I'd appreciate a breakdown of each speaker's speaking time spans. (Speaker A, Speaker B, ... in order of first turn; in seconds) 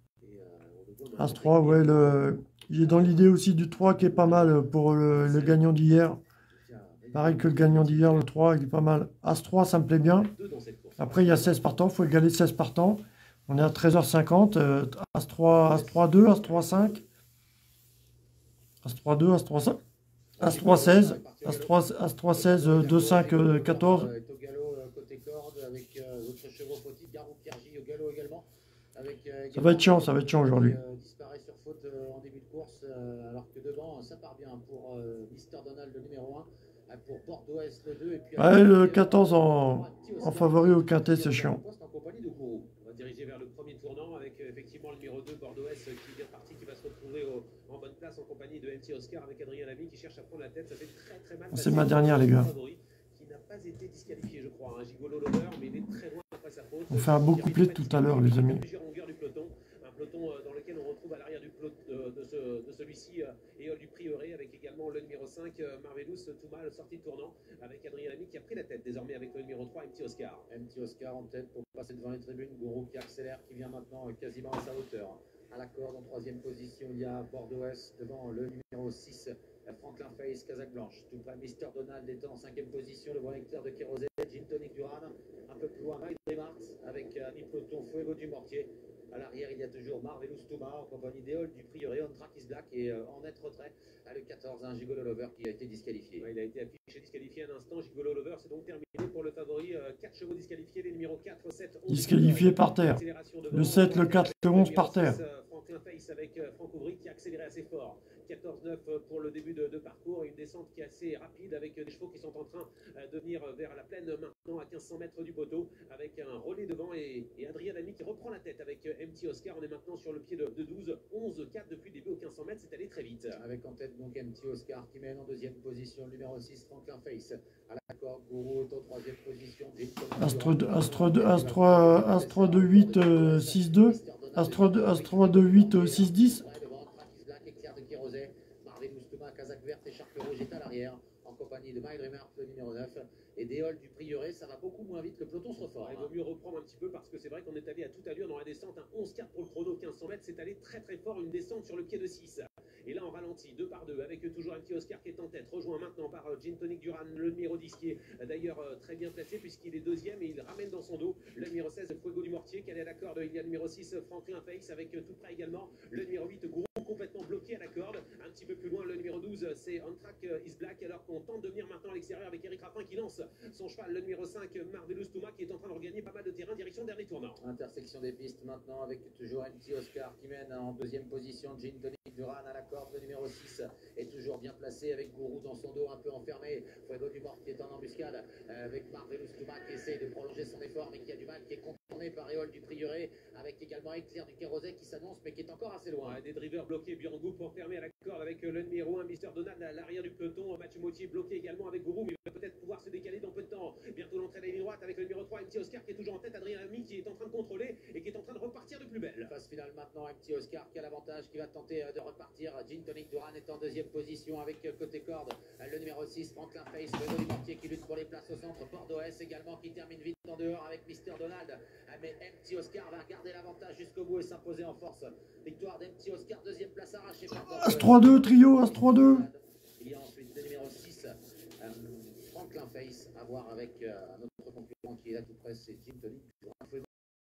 Speaker A: 0.2-3.3, 5.3-5.6, 9.9-11.6, 41.9-70.5, 96.2-123.4, 145.7-177.4, 196.0-209.3
Speaker B: 1.2-6.2, 7.1-10.3, 11.0-17.0, 18.8-19.8, 20.4-24.1, 29.5-30.8, 38.4-41.6, 51.5-52.5, 56.9-58.6, 101.9-105.2, 130.2-136.4, 227.4-229.2
Speaker C: 3.8-4.5, 5.1-5.5, 6.5-8.3, 15.7-16.6, 20.4-42.5, 70.5-96.3, 123.3-146.1, 177.4-196.2, 209.2-236.9